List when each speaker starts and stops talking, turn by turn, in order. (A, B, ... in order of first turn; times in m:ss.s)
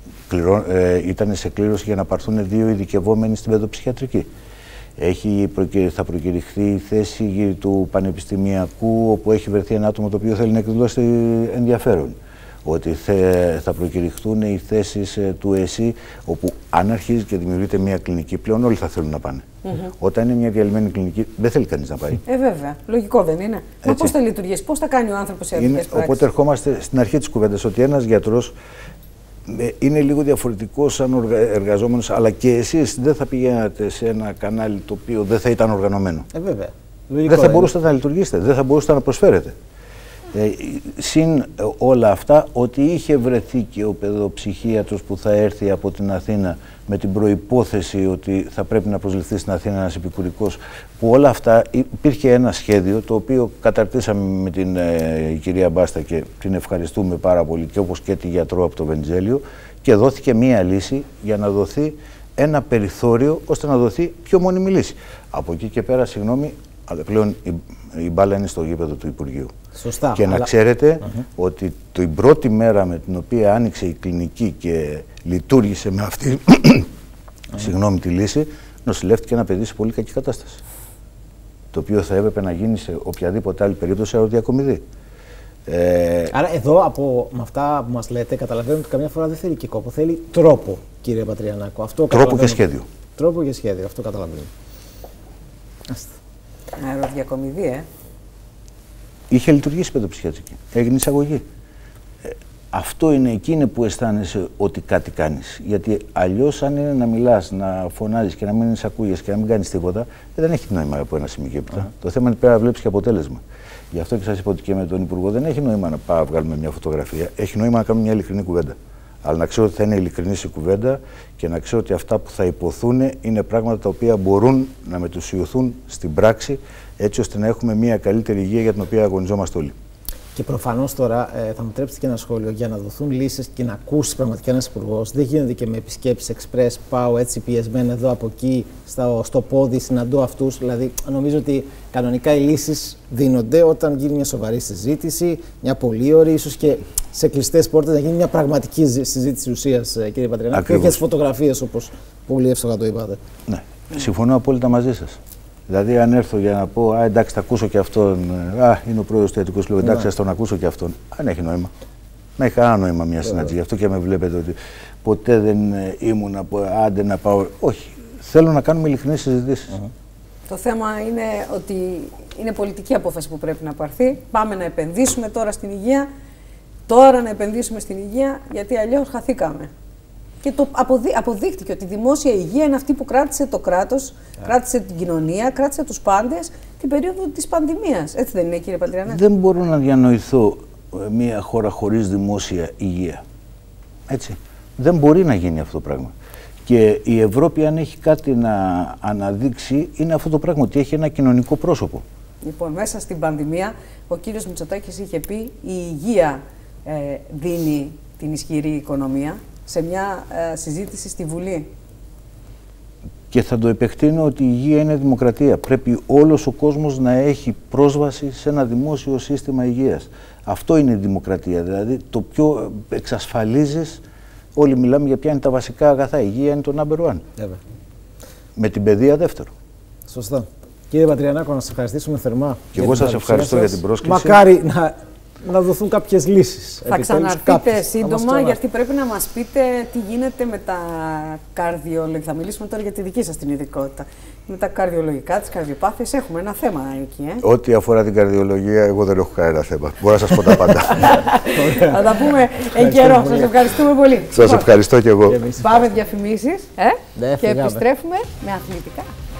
0:00.3-0:04.3 A
0:05.0-0:22.2 A
0:22.2-0:26.2 B
0:23.8-0:24.1 A
0:25.5-0:28.5 A
0:29.5-0:36.3 A
0:36.3-0:37.7 C
0:37.3-0:39.5 A
0:40.3-1:09.5 A
1:09.7-1:10.5 C
1:10.1-1:16.9 A
1:17.5-1:20.6 A
1:21.7-1:24.8 A
1:25.7-1:26.3 A
1:26.3-1:32.6 C
1:32.1-1:32.8 A
1:33.2-1:34.5 C
1:35.9-1:36.1 C
1:36.8-1:37.8 B
1:39.3-1:41.4 A
1:42.2-2:09.7 A
2:10.3-2:33.2 C
2:30.5-2:31.0 A
2:33.5-2:41.7 A
2:42.4-2:49.8 A
2:50.5-2:56.1 B
2:56.9-2:59.7 B
3:00.4-3:09.2 B
3:09.0-3:13.2 A
3:14.1-3:16.1 A
3:16.6-3:22.0 A
3:22.4-3:31.7 B
3:33.3-3:44.0 A
3:44.5-3:47.2 A
3:48.6-3:49.5 A
3:50.1-3:58.6 C
3:52.7-3:54.4 A
3:56.8-4:07.4 B
4:07.4-4:11.2 A
4:10.5-4:14.8 B
4:11.5-4:13.6 C
4:14.3-4:15.4 A
4:15.2-4:15.9 C
4:15.5-4:19.1 B
4:17.1-4:17.8 C